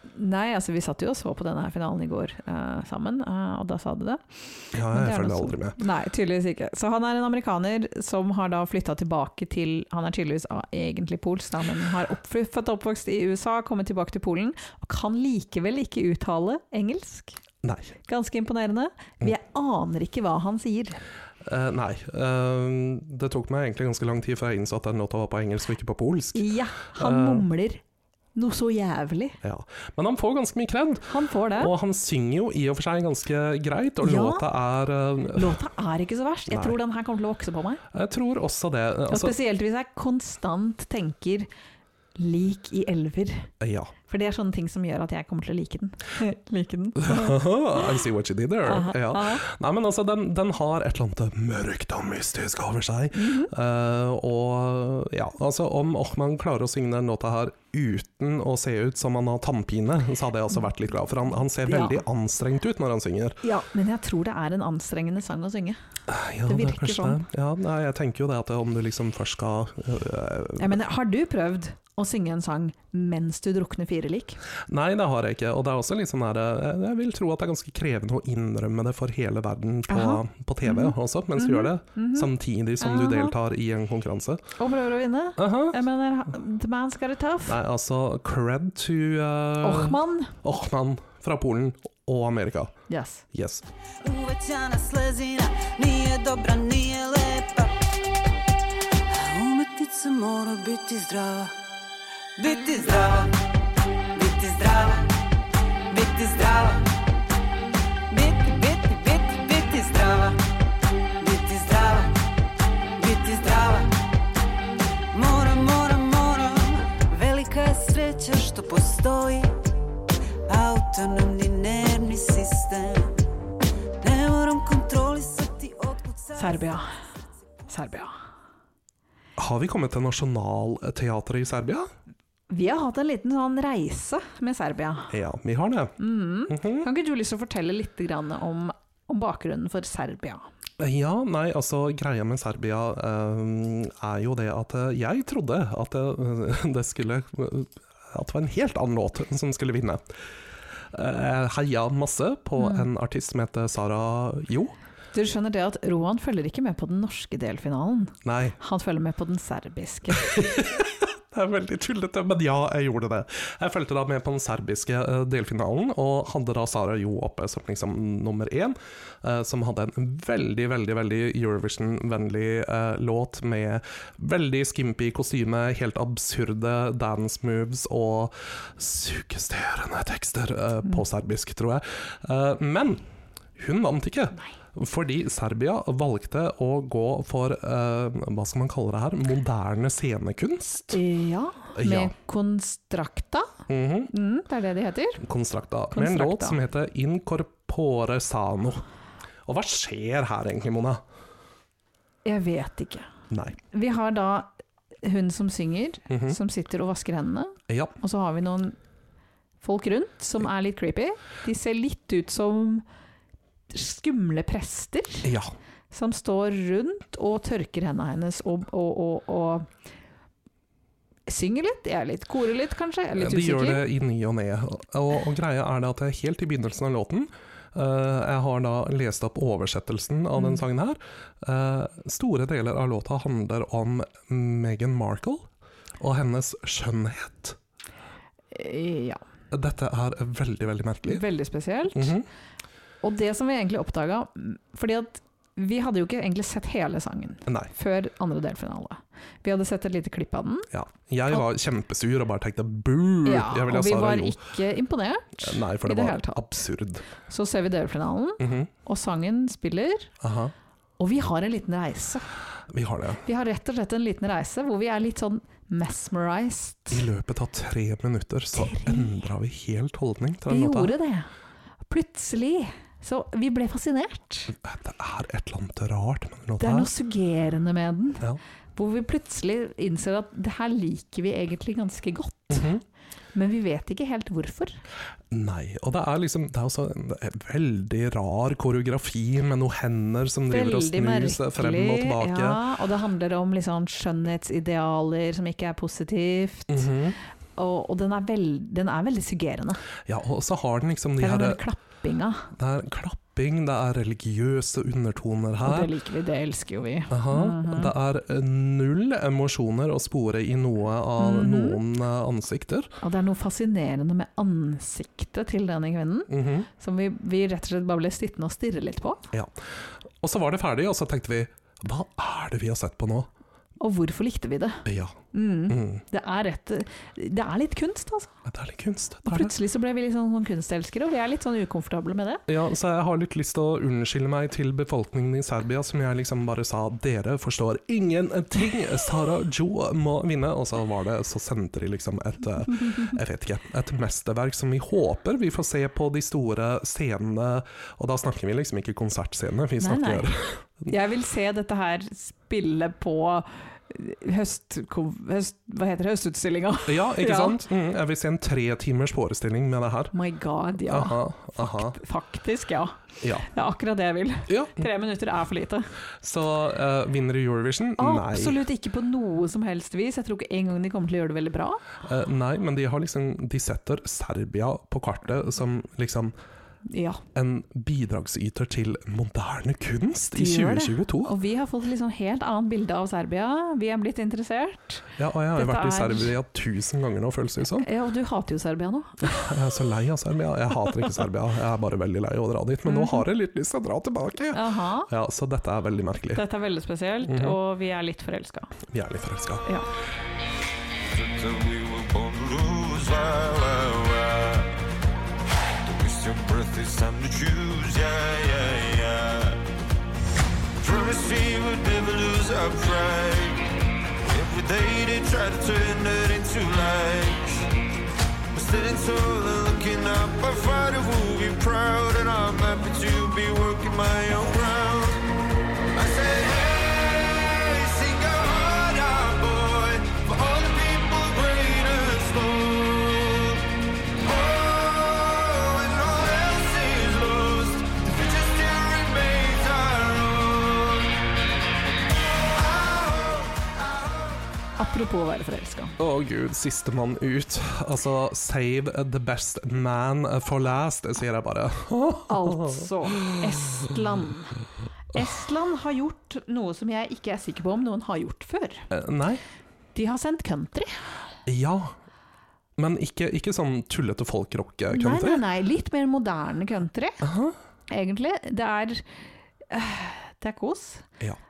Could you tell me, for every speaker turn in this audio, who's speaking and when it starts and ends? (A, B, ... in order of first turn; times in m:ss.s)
0:00.1-0:17.4 A
0:04.7-0:05.8 B
0:17.6-0:17.9 B
0:18.1-0:21.0 A
0:21.4-0:27.5 B
0:26.3-0:27.8 A
0:28.4-0:29.4 A
0:29.4-0:35.6 B
0:31.1-0:31.7 A
0:34.0-0:34.4 A
0:35.4-0:37.8 A
0:36.5-0:36.8 B
0:37.9-0:39.4 B
0:39.1-0:41.5 A
0:42.2-0:43.5 A
0:43.6-0:43.9 B
0:44.1-0:47.9 A
0:47.0-1:03.4 B
0:48.7-0:49.4 A
0:53.2-0:53.5 A
1:01.6-1:02.0 A
1:03.4-1:05.8 A
1:06.1-1:10.8 B
1:06.5-1:07.2 A
1:10.6-1:14.4 A
1:14.7-1:24.4 B
1:19.9-1:23.3 A
1:24.6-1:27.6 A
1:25.4-1:25.8 B
1:27.5-1:32.8 B
1:29.6-1:30.3 A
1:32.9-1:33.2 A
1:33.3-1:33.6 B
1:34.0-1:37.7 C
1:39.1-1:41.6 C
1:42.4-1:43.3 C
1:44.1-1:45.1 C
1:45.9-1:46.9 C
1:48.1-1:50.4 C
1:51.2-1:52.1 C
1:53.0-1:53.9 C
1:55.1-1:59.5 C
2:00.5-2:03.1 C
2:04.0-2:06.6 C
2:06.4-2:06.9 A
2:07.7-2:08.1 A
2:09.4-2:11.9 B
2:12.5-2:15.1 A
2:15.1-2:16.0 B
2:16.0-2:20.5 A
2:16.5-2:16.9 B
2:20.8-2:30.0 B
2:30.9-2:34.7 B
2:32.6-2:32.9 A
2:35.1-2:40.4 A
2:38.2-2:38.6 B
2:40.1-3:03.0 B
3:03.6-3:11.0 B
3:10.9-3:13.5 A
3:11.8-3:12.1 B
3:13.7-3:14.1 B
3:14.1-3:15.2 A
3:15.2-3:18.8 B
3:15.9-3:16.6 A
3:19.5-3:21.0 B
3:22.2-3:23.1 A
3:23.3-3:23.6 B
3:23.7-3:24.5 A
3:25.0-3:28.8 A
3:26.1-3:26.4 B
3:27.7-3:27.9 B
3:29.6-3:32.8 A
3:33.7-3:35.3 A
3:35.2-3:35.5 B
3:35.9-3:39.7 A
3:41.3-3:43.9 A
3:43.2-3:55.5 B
3:56.0-3:57.6 B
3:58.5-3:59.2 A
3:59.5-4:01.3 B
4:01.1-4:02.1 A
4:01.9-4:02.3 B
4:03.0-4:10.7 A
4:10.7-4:14.4 B
4:13.2-4:16.4 A
4:15.4-4:17.0 B
4:17.3-4:20.1 A
4:18.4-4:18.7 B
4:20.2-4:20.5 B
4:21.0-4:22.3 A
4:22.7-4:23.2 B
4:23.2-4:27.0 A
4:26.9-4:30.9 B
4:28.5-4:29.3 A
4:30.5-4:31.3 A
4:31.9-4:34.5 A
4:34.5-4:36.9 B
4:36.6-4:38.2 A
4:38.8-4:42.7 A
4:42.5-4:42.8 B
4:43.3-4:44.8 A
4:45.3-4:52.6 B
4:50.5-4:56.9 A
4:56.7-4:57.2 B
4:57.6-4:59.8 A
5:00.0-5:01.6 B
5:01.2-5:02.5 A
5:02.6-5:05.9 B
5:05.6-5:07.9 A
5:07.1-5:12.9 B
5:11.2-5:11.8 A
5:13.0-5:19.3 A
5:16.3-5:16.7 B
5:19.3-5:23.3 B
5:23.8-5:28.3 A
5:24.8-5:26.0 B
5:28.5-5:29.6 B
5:29.3-5:32.4 A
5:32.5-5:50.9 B
5:49.8-5:50.3 A
5:50.9-5:57.6 A
5:56.9-6:00.1 B
6:00.1-6:05.9 A
6:00.9-6:02.0 B
6:03.2-6:03.5 B
6:04.5-6:04.9 B
6:06.2-6:08.6 B
6:08.0-6:11.8 A
6:12.0-6:16.3 B
6:16.9-6:17.2 A
6:17.3-6:21.3 B
6:20.3-6:26.3 A
6:25.2-6:27.9 B
6:27.8-6:29.5 A
6:29.3-6:36.4 B
6:32.9-6:33.2 A
6:34.5-6:35.1 A
6:36.4-6:38.7 A
6:37.2-6:37.6 B
6:38.9-6:39.6 B
6:41.1-6:44.7 D
6:45.8-6:49.6 D
6:50.8-6:53.6 D
6:54.2-6:57.7 D
6:58.5-7:05.2 D
7:05.9-7:13.6 D
7:14.2-7:21.1 D
7:22.6-7:23.5 D
7:24.8-7:25.9 A
7:26.0-7:33.4 B
7:32.3-7:34.6 A
7:35.1-7:38.9 A
7:38.9-7:39.4 B
7:40.0-7:41.1 A
7:41.5-7:42.0 B
7:42.8-7:45.4 B
7:44.9-7:47.2 A
7:47.2-7:47.6 B
7:47.9-7:49.0 A
7:49.7-7:51.1 A